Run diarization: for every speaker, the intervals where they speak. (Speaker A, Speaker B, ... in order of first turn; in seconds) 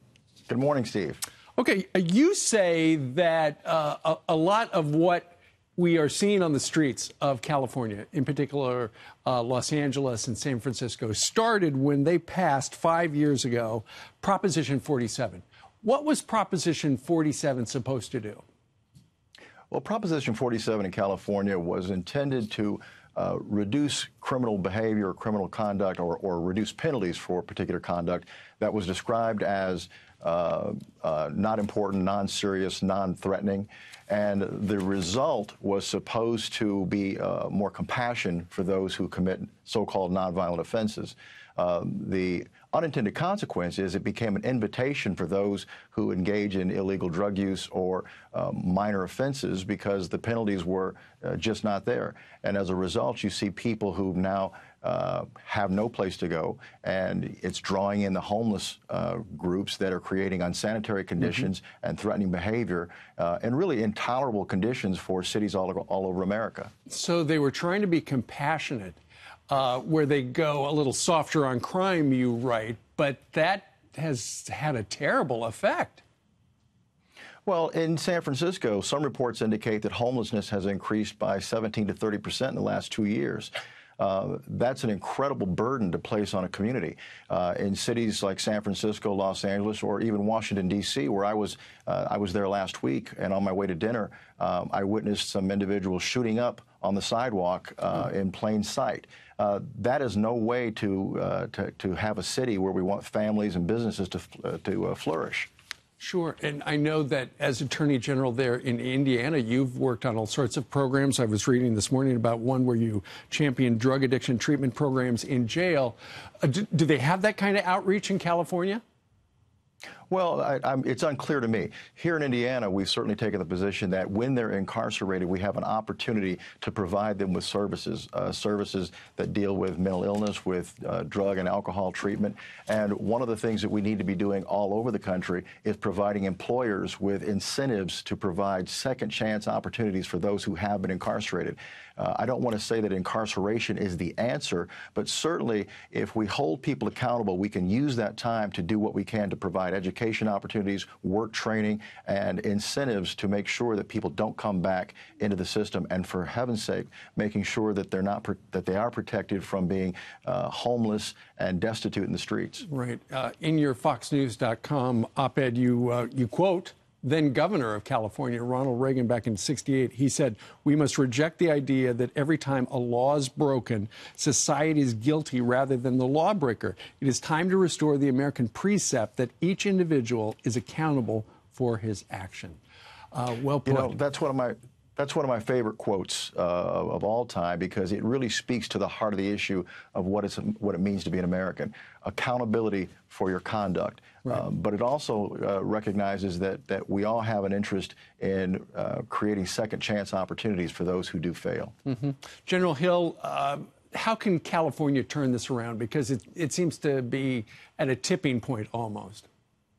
Speaker A: 0.5-1.2, 19.7-66.7, 77.4-105.5, 120.1-162.6, 183.7-201.7
Speaker B: 1.6-18.4, 66.9-69.0, 69.5-76.0, 106.0-118.8, 162.6-182.6, 183.1-184.0, 201.8-209.3